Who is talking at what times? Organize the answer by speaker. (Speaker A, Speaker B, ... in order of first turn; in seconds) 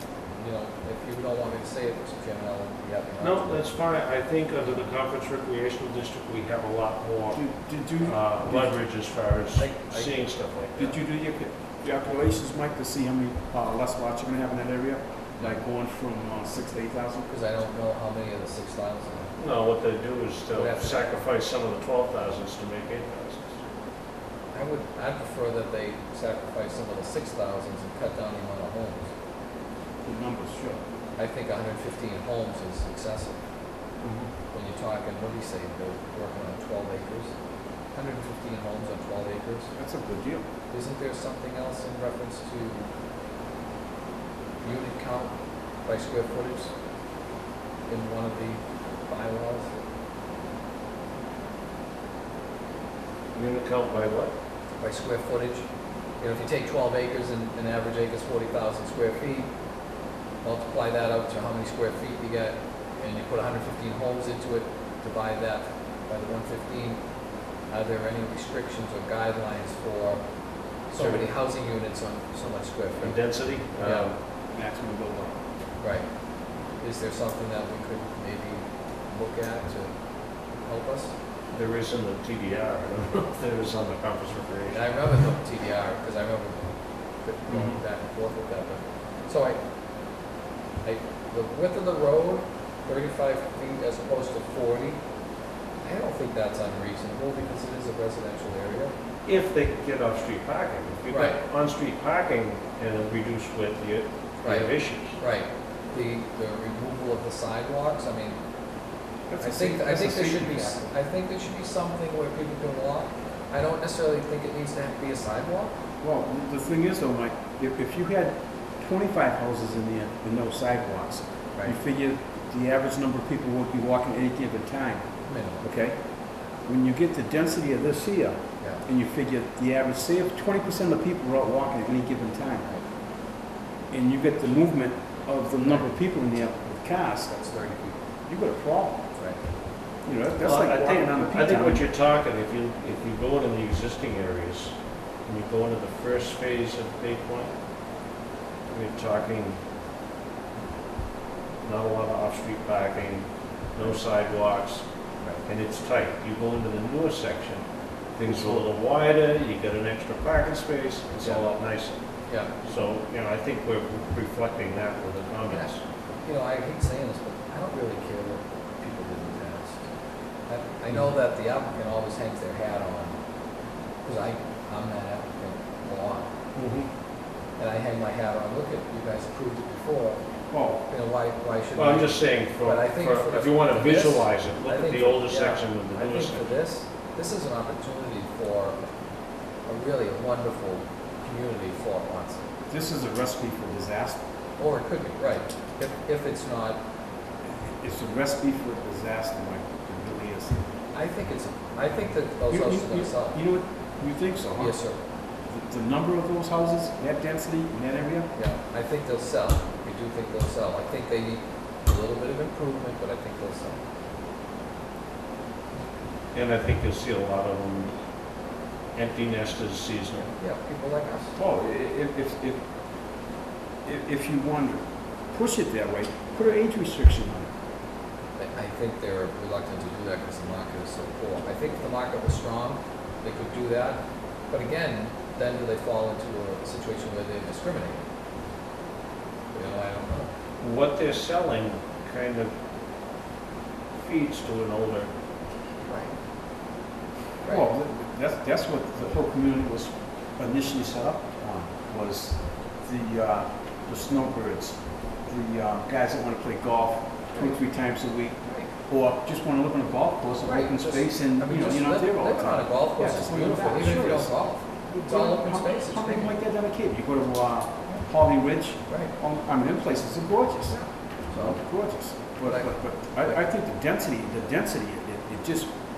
Speaker A: 0.4-3.7, 9.6-10.2, 17.3-19.3, 20.5-21.1, 24.5-29.1, 31.2-33.4, 34.5-37.3, 37.9-39.7, 40.7-42.9, 44.6-46.7, 47.9-49.8, 54.8-55.7, 56.2-59.5, 60.4-67.0, 67.7-70.3, 70.9-73.2, 73.8-74.1, 75.8-76.1, 76.8-79.9, 80.6-81.2, 84.7-86.7, 87.2-89.6, 90.8-95.0, 95.8-98.9, 101.1-101.4, 104.4-108.4, 109.4-115.7, 125.2-125.7, 137.3-138.0, 139.2-139.4, 158.3-158.7, 161.2-161.5, 162.3-162.5, 166.2-169.9, 170.5-173.2, 174.0-176.3, 177.6-180.2, 180.8-188.9, 189.7-192.5, 194.6-196.8, 200.9-203.4, 204.6-205.0, 208.3-213.8, 220.2-221.4, 228.4-238.0, 239.5-240.3, 245.9-246.1, 258.4-258.7, 260.4-266.3, 268.9-269.1, 270.7-271.6, 272.5-272.7
Speaker B: 3.2-7.4, 8.0-11.0, 19.4-23.6, 53.4-54.3, 71.0-71.3, 73.0-74.2, 81.5-85.3, 99.3-105.2, 140.4-144.7, 145.3-147.5, 148.7-149.6, 151.6-154.8, 155.5-157.6, 158.2-162.0, 162.6-165.8, 176.6-176.9, 181.8-186.5, 216.3-217.9, 218.9-220.3, 240.6-242.5, 244.0-245.1
Speaker C: 7.4-8.8, 10.8-17.3, 30.1-30.8, 34.0-34.3, 39.8-40.5, 74.5-75.4, 87.5-87.8, 109.3-110.9, 116.0-125.1, 125.6-126.0, 126.7-132.7, 133.9-137.3, 138.3-139.0, 140.1-141.9, 180.5-180.8, 192.7-194.2, 197.6-200.6, 202.5-204.8, 205.5-208.3, 221.4-222.6, 223.8-227.5, 247.4-264.3, 264.9-275.7